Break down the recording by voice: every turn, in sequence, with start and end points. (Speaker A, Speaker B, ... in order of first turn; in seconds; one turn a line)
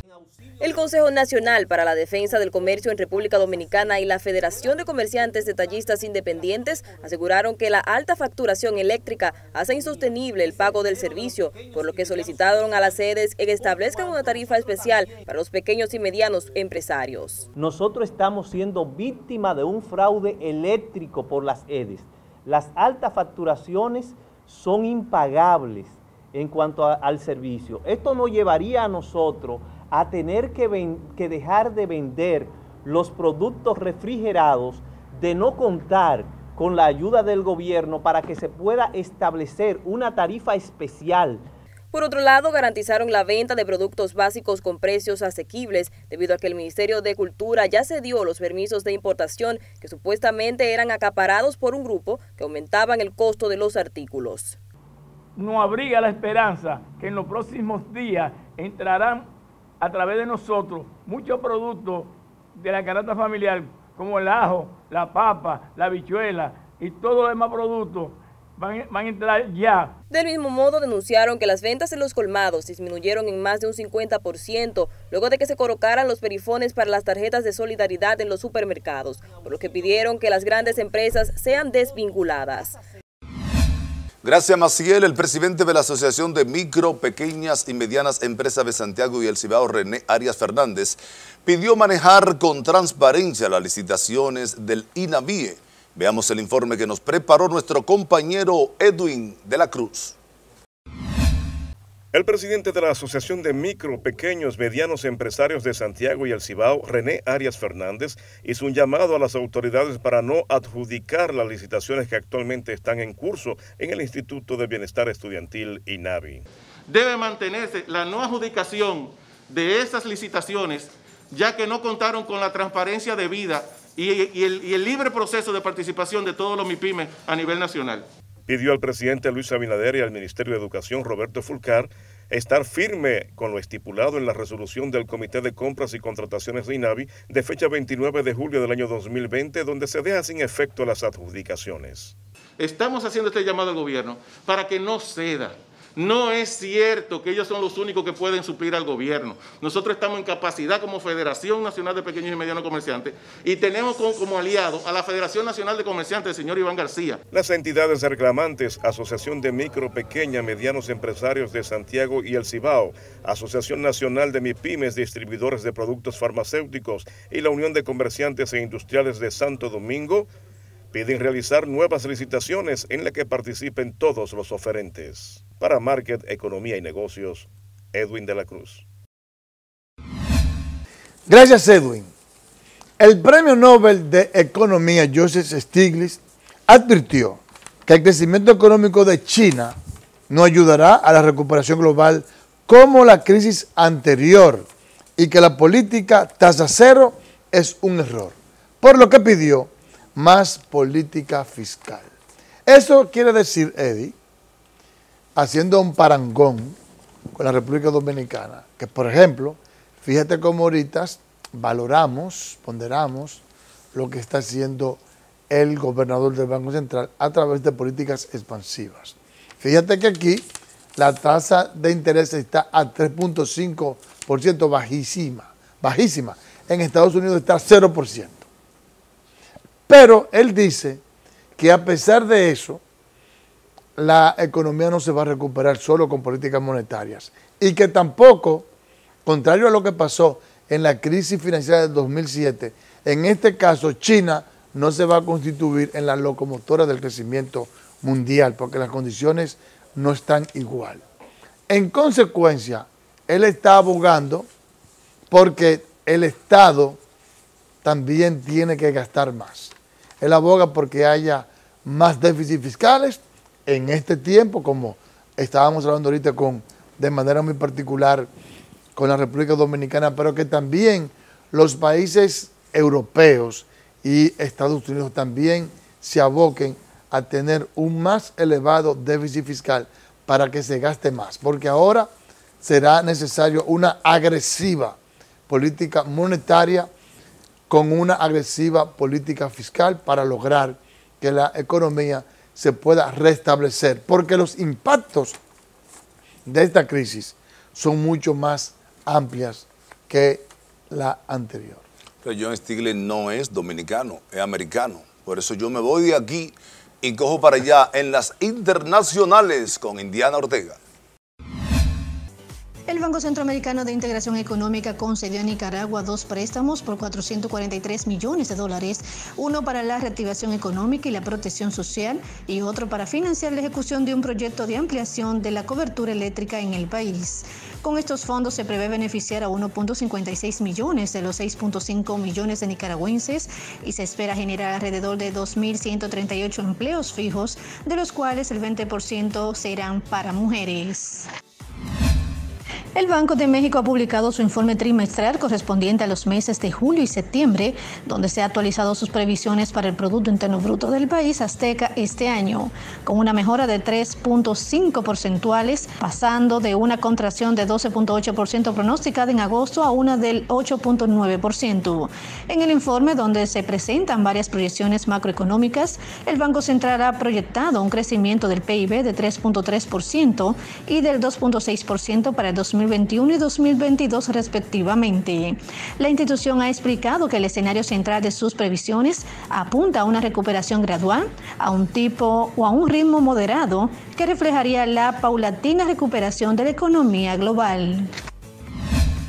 Speaker A: 0.6-17.5
Speaker B: 17.5-41.5
Speaker A: 41.9-54.6
Speaker C: 55.4-59.2
Speaker C: 59.8-69.9
Speaker A: 70.1-82.8
Speaker D: 84.2-100.2
Speaker E: 102.1-116.4
Speaker F: 116.9-128.1
Speaker E: 128.5-142.2
Speaker F: 142.6-157.2
Speaker E: 157.3-170.3
Speaker E: 170.9-178.8
Speaker G: 181.3-182.1
Speaker G: 183.0-189.8
Speaker G: 190.3-202.1
Speaker G: 202.7-204.2
Speaker G: 205.4-206.8
Speaker G: 207.4-213.4
Speaker G: 213.9-228.5
Speaker G: 229.9-231.0
Speaker G: 231.6-232.8
Speaker G: 234.0-238.7
Speaker G: 239.2-251.0
Speaker G: 251.7-254.5
Speaker G: 255.3-257.0
Speaker G: 257.8-268.3
Speaker G: 268.9-282.1
Speaker G: 282.6-285.0
Speaker G: 285.5-286.9
Speaker G: 287.7-295.4
Speaker G: 296.5-301.8
Speaker D: 302.2-310.8
Speaker H: 312.9-341.3
Speaker H: 342.9-388.1